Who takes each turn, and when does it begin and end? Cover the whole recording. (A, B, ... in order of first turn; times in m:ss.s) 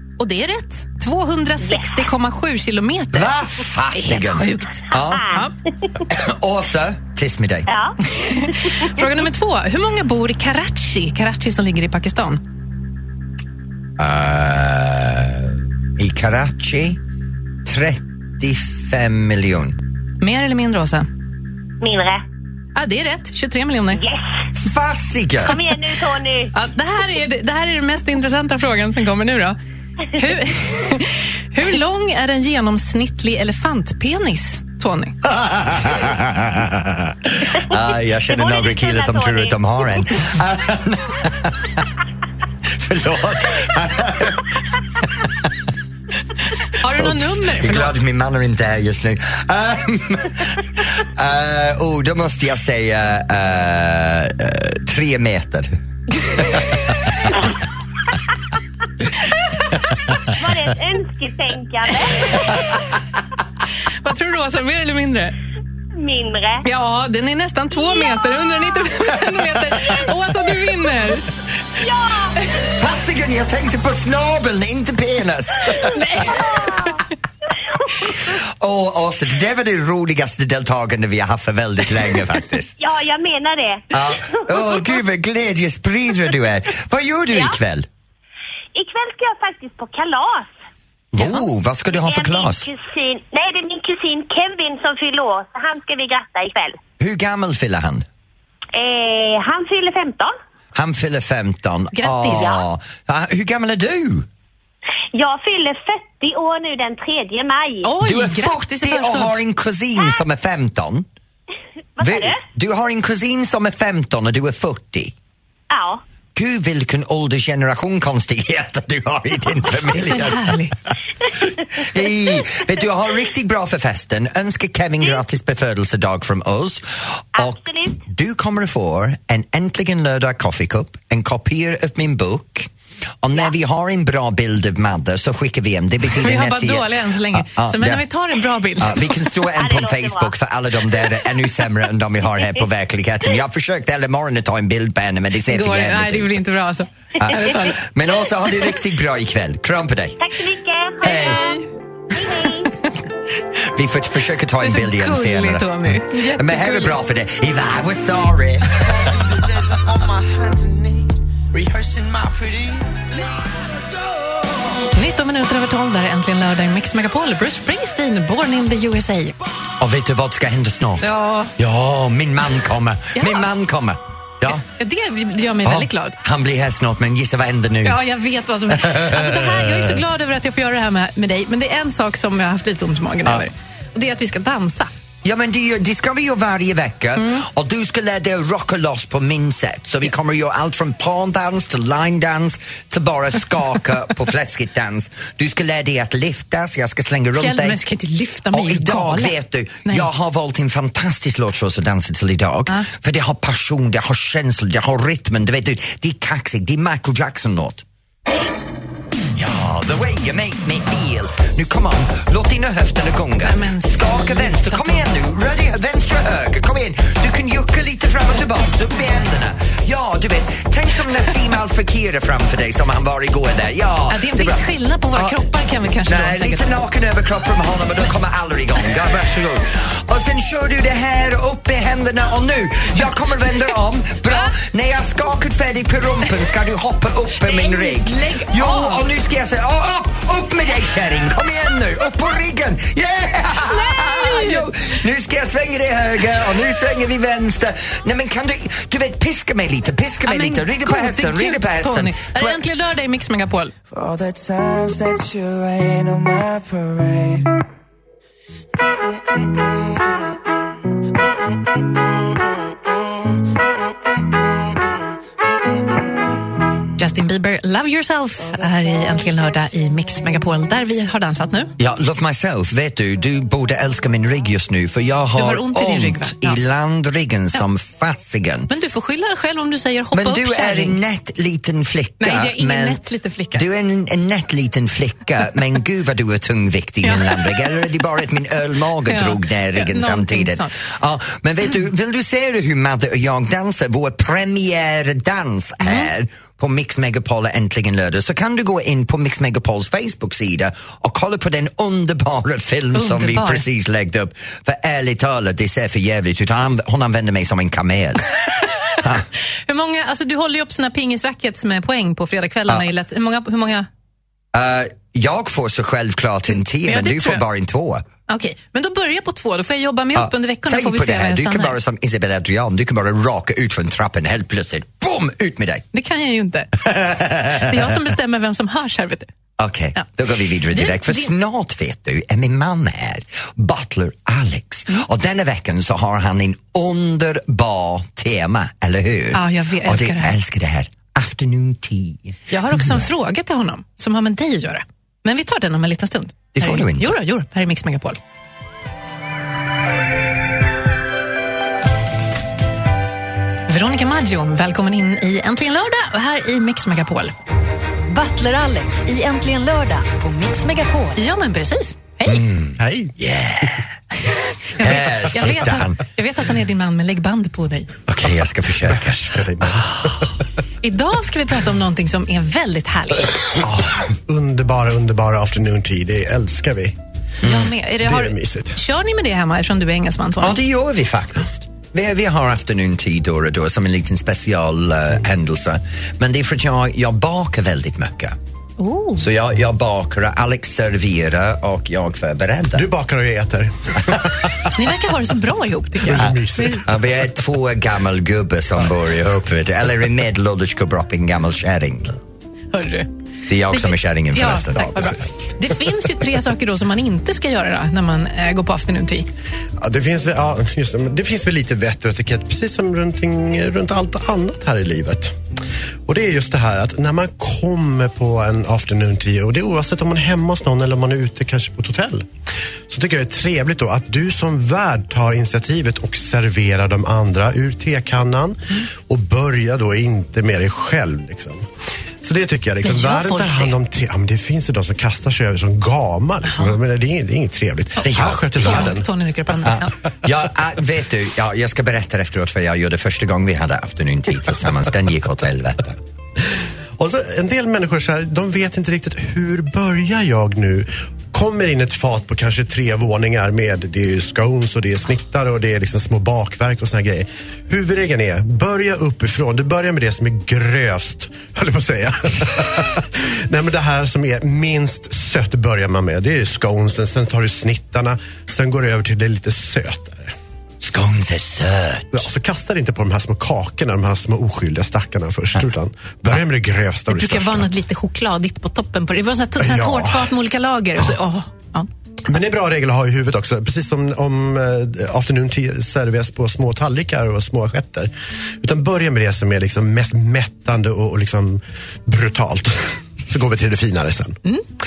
0:00.2-0:03.4 A
0:01.6-0:02.0 B
0:03.1-0:05.3 C
0:03.9-0:05.5 A
0:05.0-0:05.4 B
0:06.1-0:07.7 C
0:07.7-0:08.0 B
0:08.1-0:12.4 A
0:08.5-0:08.9 B
0:14.0-0:17.0 C
0:17.6-0:19.8 C
0:20.2-0:21.1 A
0:21.8-0:22.2 B
0:22.8-0:24.0 A
0:24.0-0:24.3 B
0:24.6-0:25.6 C
0:25.4-0:26.5 B
0:26.5-0:29.6 A
0:30.1-0:35.2 A
0:35.2-0:41.9 C
0:38.3-0:40.1 B
0:42.7-0:45.5 C
0:46.8-0:48.0 A
0:47.0-0:57.3 C
1:00.3-1:02.6 B
1:04.0-1:05.4 A
1:06.0-1:06.6 B
1:06.6-1:11.3 A
1:11.8-1:12.4 B
1:12.7-1:16.4 C
1:15.9-1:16.8 A
1:16.3-1:17.0 B
1:18.3-1:22.8 C
1:22.8-1:24.9 B
1:23.9-1:27.9 C
1:28.7-1:30.5 B
1:31.1-1:32.7 C
1:32.0-1:36.8 B
1:37.0-1:38.1 C
1:38.7-1:40.3 B
1:40.7-1:44.3 C
1:41.9-1:42.5 A
1:45.1-1:47.9 B
1:47.8-1:49.4 A
1:48.0-1:51.1 C
1:52.0-1:52.4 B
1:52.0-1:55.1 C
1:55.7-1:56.0 B
1:56.4-2:00.9 C
1:59.9-2:00.8 A
2:01.7-2:12.7 C
2:07.4-2:08.0 B
2:13.2-2:18.1 C
2:16.2-2:19.3 A
2:18.8-2:26.4 C
2:19.6-2:20.3 B
2:25.5-2:27.8 A
2:27.2-2:30.3 C
2:30.2-2:31.4 B
2:31.0-2:31.4 C
2:31.0-2:31.7 A
2:32.1-2:32.7 B
2:33.6-2:39.0 C
2:34.6-2:37.0 A
2:38.8-2:43.6 D
2:44.9-2:49.4 A
2:49.8-2:54.6 C
2:51.0-2:51.5 A
2:53.2-2:53.5 A
2:54.7-2:56.2 A
2:55.6-2:58.0 C
2:57.8-3:04.9 A
2:58.7-3:00.0 C
3:05.2-3:17.8 C
3:07.2-3:07.4 A
3:17.4-3:20.1 A
3:18.5-3:27.8 C
3:29.4-3:45.4 C
3:33.4-3:35.1 A
3:44.1-3:46.6 A
3:46.0-4:12.6 C
3:57.4-3:59.1 A
4:03.6-4:04.7 A
4:10.3-4:13.7 A
4:13.9-4:17.5 D
4:27.0-4:31.7 A
4:31.8-4:38.7 C
4:35.4-4:36.6 A
4:38.7-4:41.0 A
4:40.1-4:43.0 C
4:42.2-4:43.7 A
4:43.5-5:08.3 C
4:47.0-4:47.6 A
4:49.1-4:50.7 A
4:55.8-4:56.1 A
5:02.9-5:03.7 A
5:09.0-5:09.2 C
5:09.7-5:13.9 A
5:14.5-5:18.1 C
5:16.8-5:17.5 A
5:18.3-5:21.8 A
5:20.2-5:25.9 C
5:25.9-5:26.9 A
5:26.9-5:27.8 C
5:27.4-5:29.3 A
5:29.6-5:43.0 C
5:30.7-5:31.3 A
5:39.3-5:40.4 A
5:42.5-5:48.2 A
5:46.6-5:47.1 C
5:53.7-5:57.3 A
5:58.1-6:01.2 E
6:01.2-6:02.4 A
6:02.3-6:03.9 C
6:02.8-6:03.2 F
6:04.3-6:07.9 A
6:04.8-6:06.0 C
6:08.1-6:10.2 C
6:08.8-6:10.3 F
6:10.8-6:13.4 A
6:13.6-6:17.0 F
6:17.4-6:17.7 C
6:17.4-6:20.6 A
6:18.0-6:18.8 F
6:20.4-6:28.4 C
6:28.8-6:29.3 A
6:29.2-6:32.9 C
6:32.7-6:34.7 F
6:34.8-6:36.9 A
6:36.0-6:37.0 F
6:36.2-6:42.2 C
6:42.7-6:43.1 A
6:43.5-6:45.2 C
6:43.7-6:49.3 A
6:44.8-6:45.2 F
6:49.8-6:55.4 F
6:56.1-7:02.3 F
7:02.9-7:11.7 F
7:12.2-7:19.1 F
7:12.8-7:13.8 A
7:18.0-7:20.0 A
7:18.0-7:19.0 C
7:19.6-7:26.0 C
7:27.0-7:50.4 F
7:50.8-7:52.3 C
7:52.1-7:57.7 F
7:57.1-8:01.9 A
7:59.6-8:00.3 F
8:02.3-8:14.4 F